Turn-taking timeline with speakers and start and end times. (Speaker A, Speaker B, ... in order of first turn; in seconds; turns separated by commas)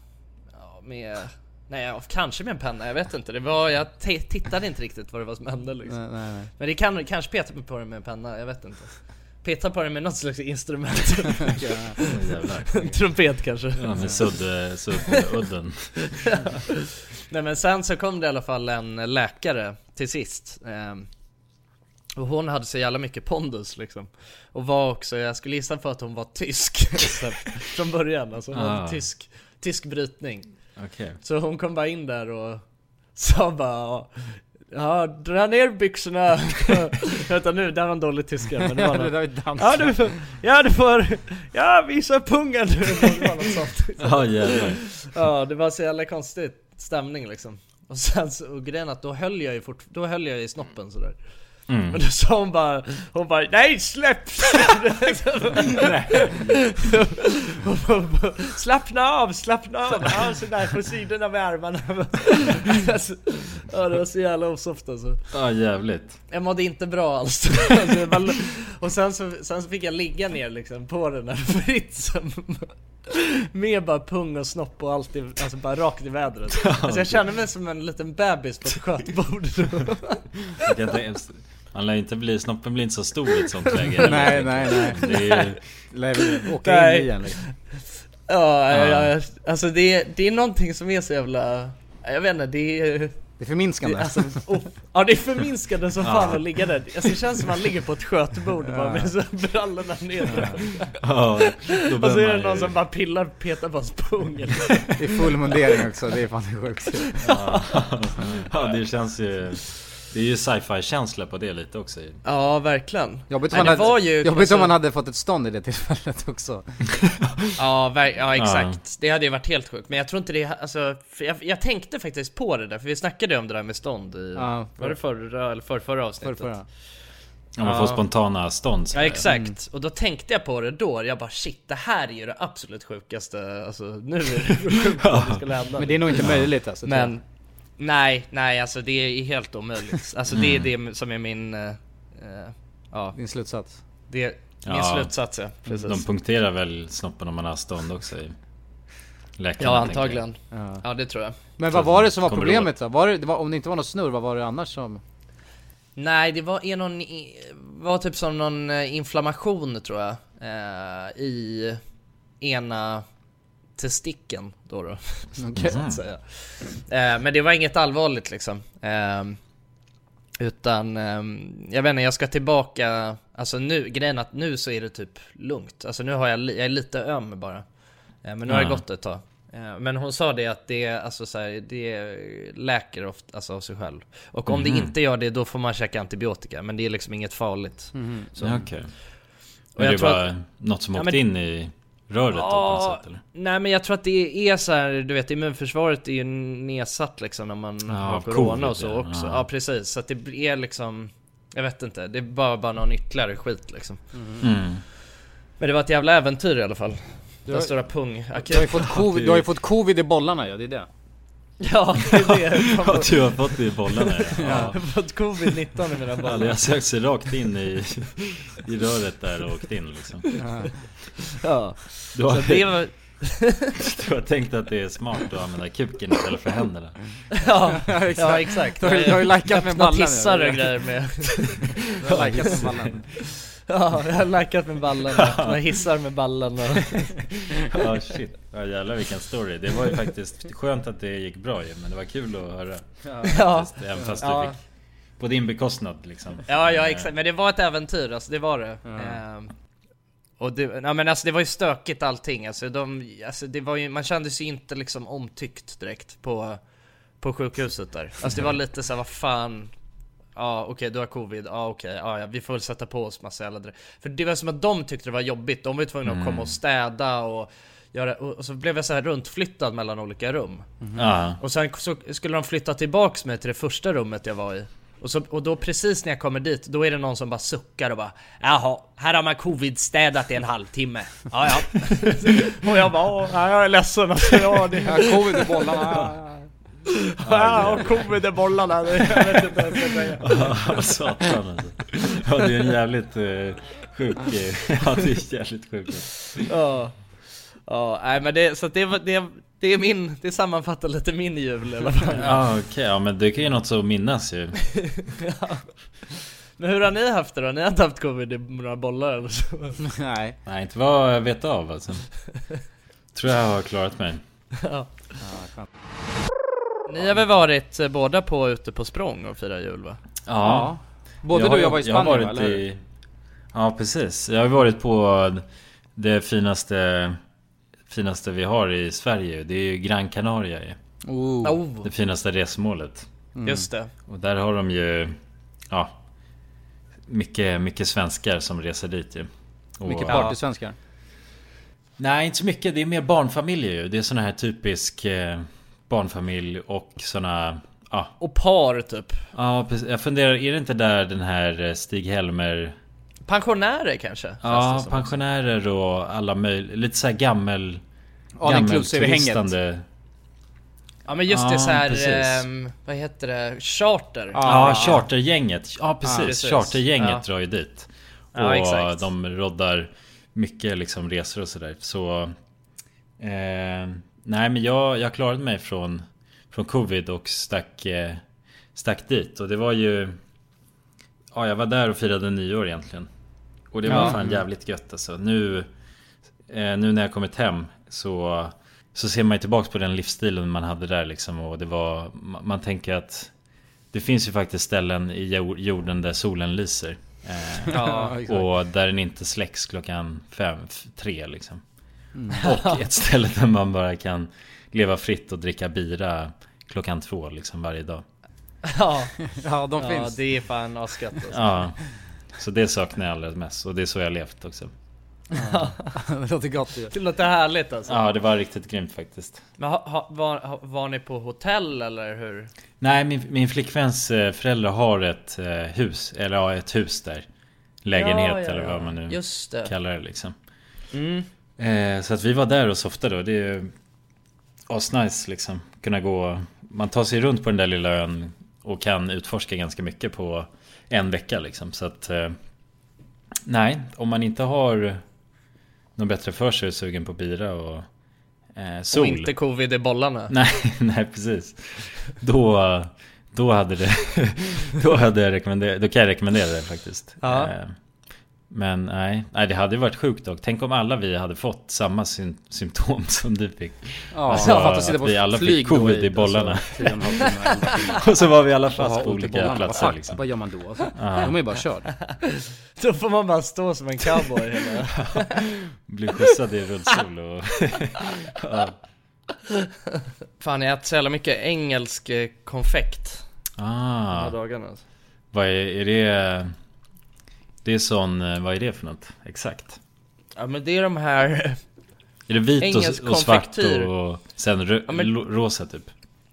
Speaker A: 0.5-14.5, Speaker B: 5.9-6.5, Speaker B: 11.6-11.9, Speaker C: 12.1-12.9, Speaker C: 13.8-16.1, Speaker A: 16.3-16.6, Speaker A: 17.3-21.1, Speaker A: 22.2-65.2, Speaker C: 28.5-29.1, Speaker C: 30.8-31.2, Speaker B: 38.8-40.1, Speaker C: 44.0-44.8, Speaker C: 51.7-52.0, Speaker B: 55.8-56.0, Speaker C: 65.3-66.2, Speaker A: 66.3-80.6, Speaker C: 76.5-77.2, Speaker C: 80.7-85.9, Speaker B: 84.0-85.2, Speaker A: 85.0-85.6, Speaker B: 85.9-87.4, Speaker A: 86.6-105.2, Speaker C: 88.7-89.1, Speaker B: 93.4-94.5, Speaker C: 96.0-96.5, Speaker B: 98.7-99.1, Speaker B: 100.3-100.6, Speaker C: 101.0-102.8, Speaker B: 105.0-107.2, Speaker A: 107.2-108.3, Speaker C: 107.2-112.2, Speaker A: 112.2-114.7, Speaker B: 113.3-116.7, Speaker C: 113.6-113.9, Speaker A: 117.5-126.6, Speaker C: 118.3-118.8, Speaker B: 124.3-125.0, Speaker B: 126.2-126.7, Speaker C: 127.6-129.2, Speaker A: 127.6-128.0, Speaker A: 128.9-137.2, Speaker B: 129.3-129.5, Speaker C: 135.1-135.4, Speaker B: 135.8-137.2, Speaker C: 136.2-136.5, Speaker A: 137.7-143.2, Speaker C: 140.3-140.7, Speaker B: 143.1-143.8, Speaker A: 144.1-146.0, Speaker C: 144.6-148.3, Speaker C: 149.4-150.3, Speaker A: 149.6-151.4, Speaker B: 150.5-150.8, Speaker B: 151.6-155.0, Speaker C: 151.7-152.7, Speaker A: 155.9-161.8, Speaker A: 162.4-163.1, Speaker A: 163.8-169.4, Speaker B: 165.4-165.8, Speaker C: 165.6-166.0, Speaker A: 170.4-177.7, Speaker A: 178.2-188.7, Speaker C: 178.5-178.8, Speaker C: 184.5-184.9, Speaker B: 187.9-188.5, Speaker C: 188.4-189.1, Speaker A: 189.7-191.2, Speaker C: 189.7-193.2, Speaker A: 192.3-204.1, Speaker C: 197.9-199.4, Speaker B: 204.1-204.4, Speaker C: 204.4-204.8, Speaker A: 205.6-208.8, Speaker B: 207.4-207.8, Speaker B: 208.4-210.9, Speaker C: 208.8-209.4, Speaker A: 211.6-216.7, Speaker C: 212.8-214.8, Speaker B: 214.4-214.8, Speaker C: 216.2-220.3, Speaker B: 220.3-220.8, Speaker A: 221.4-223.7, Speaker C: 222.1-223.2, Speaker C: 223.8-227.0, Speaker A: 227.3-231.8, Speaker B: 227.8-231.0, Speaker B: 232.0-233.1, Speaker C: 232.1-233.0, Speaker A: 233.7-237.6, Speaker C: 235.2-235.6, Speaker C: 237.7-244.6, Speaker B: 243.0-243.4, Speaker A: 243.2-244.5, Speaker C: 245.2-247.1, Speaker A: 246.4-249.5, Speaker B: 248.8-249.2, Speaker A: 250.4-256.6, Speaker A: 257.2-259.7, Speaker A: 260.4-270.8, Speaker C: 266.0-266.6, Speaker C: 270.9-271.4, Speaker A: 271.4-286.0, Speaker B: 284.9-286.4, Speaker A: 287.2-290.4, Speaker C: 287.2-288.1, Speaker B: 289.4-289.9, Speaker C: 290.2-296.2, Speaker A: 296.4-302.4, Speaker C: 302.2-304.6, Speaker A: 305.2-309.8, Speaker B: 309.9-310.4, Speaker C: 310.4-312.1, Speaker C: 313.1-314.2, Speaker A: 314.6-314.9, Speaker B: 315.2-315.7, Speaker A: 316.9-320.0, Speaker C: 320.2-320.8, Speaker B: 320.4-322.6, Speaker C: 321.3-322.8, Speaker C: 323.5-325.4, Speaker C: 325.9-327.2, Speaker C: 327.9-330.8, Speaker B: 331.0-331.6, Speaker A: 331.4-331.9, Speaker C: 331.8-333.1, Speaker B: 333.3-333.7, Speaker A: 333.4-333.9, Speaker C: 334.1-335.1, Speaker C: 335.7-336.0, Speaker C: 337.1-339.3, Speaker C: 339.8-340.3, Speaker B: 339.9-340.8, Speaker A: 340.0-340.4, Speaker C: 342.0-348.1, Speaker A: 348.2-349.2, Speaker C: 349.3-352.7, Speaker A: 353.3-355.2, Speaker C: 354.4-357.8, Speaker B: 358.4-359.5, Speaker C: 358.4-359.8, Speaker A: 361.1-364.9, Speaker C: 361.3-362.4, Speaker B: 364.3-365.1, Speaker C: 364.4-372.3, Speaker B: 366.0-366.4, Speaker A: 366.2-367.2, Speaker A: 368.3-369.0, Speaker C: 373.2-378.2, Speaker C: 378.7-380.2, Speaker C: 381.3-383.1, Speaker C: 383.7-385.7, Speaker B: 383.9-384.2, Speaker C: 386.5-393.3, Speaker C: 393.9-401.6, Speaker A: 397.7-398.2, Speaker B: 397.7-398.5, Speaker B: 402.1-402.4, Speaker C: 402.4-408.0, Speaker A: 402.4-402.8, Speaker A: 408.6-409.2, Speaker B: 409.4-410.2, Speaker A: 409.8-411.7, Speaker C: 411.3-411.8, Speaker C: 412.4-414.7, Speaker B: 415.3-416.9, Speaker A: 415.4-415.9, Speaker A: 416.9-418.0, Speaker C: 417.9-419.4, Speaker A: 419.6-422.5, Speaker C: 422.8-427.2, Speaker C: 427.8-430.3, Speaker A: 427.9-429.7, Speaker A: 430.9-431.3, Speaker C: 431.6-433.7, Speaker C: 434.7-442.4, Speaker C: 443.4-445.0, Speaker C: 446.0-447.9, Speaker C: 448.5-449.3, Speaker A: 448.9-450.4, Speaker C: 450.3-457.7, Speaker A: 457.2-457.5, Speaker C: 458.5-467.3, Speaker B: 464.1-468.0, Speaker A: 464.3-465.0, Speaker C: 468.0-470.4, Speaker B: 468.7-472.0, Speaker C: 470.9-471.4, Speaker A: 472.8-475.4, Speaker C: 475.9-478.8, Speaker A: 480.4-483.2, Speaker C: 483.6-484.4, Speaker A: 484.1-484.8, Speaker C: 485.3-486.5, Speaker C: 487.6-489.8, Speaker A: 490.4-491.6, Speaker C: 492.3-495.9, Speaker A: 492.6-493.9, Speaker A: 494.9-495.1